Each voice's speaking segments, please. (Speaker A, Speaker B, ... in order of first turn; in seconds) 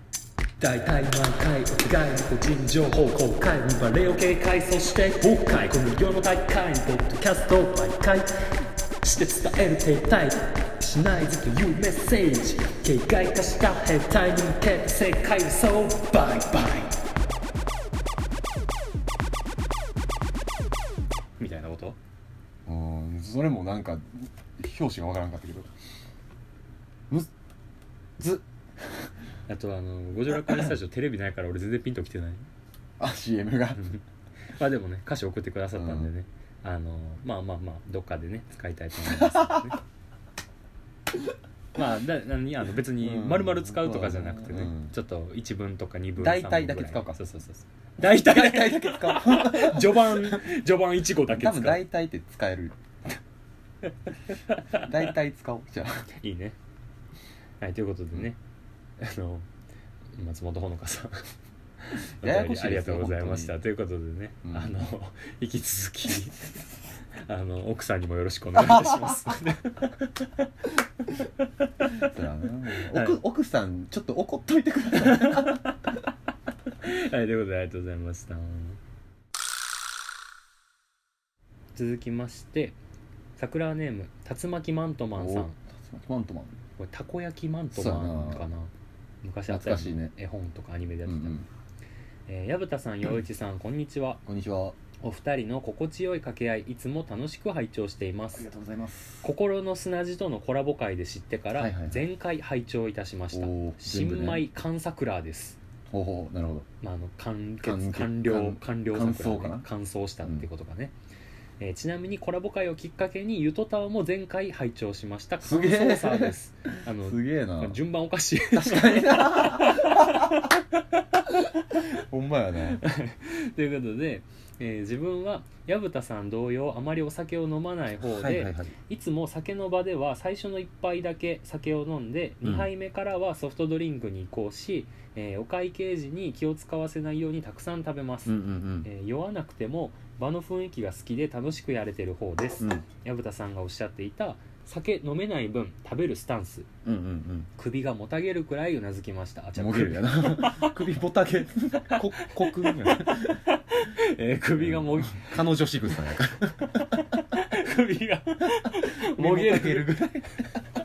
Speaker A: 0.6-16.9, 21.4-22.0, 29.5-32.5, 33.7-34.0, 34.5-39.8, 41.7-51.8, 54.3-54.9, 56.2-56.6, 57.6-58.4, 59.0-59.5, 60.2-61.3, 61.9-66.6, 67.2-72.0, 72.9-73.2, 74.9-76.0, 76.7-78.8, 81.8-82.8, 83.4-85.5, 86.8-88.7, 89.2-91.4, 92.3-94.2, 95.0-98.5, 99.2-105.6, 106.8-110.9, 111.6-120.6, 122.8-146.7, 147.6-150.8, 151.9-155.4, 156.8-160.0
Speaker B: 22.6-25.8, 28.2-29.1, 30.4-30.7, 33.0-33.8, 35.8-36.1, 39.1-39.6, 43.0-44.9, 46.2-47.2, 48.0-50.4, 51.3-53.2, 54.7-56.0, 62.2-63.5, 64.4-64.8, 68.6-69.1, 72.0-75.7, 85.1-86.5, 87.7-88.5, 89.5-90.1, 91.0-91.5, 94.2-94.8, 98.3-99.3, 101.5-102.0, 103.3-104.5, 105.9-106.7, 107.6-109.7, 115.4-117.8, 118.5-120.5, 121.9-122.8, 128.0-128.7, 132.4-132.7, 138.2-138.9, 146.8-147.5, 149.6-153.4, 154.6-157.0, 158.8-160.6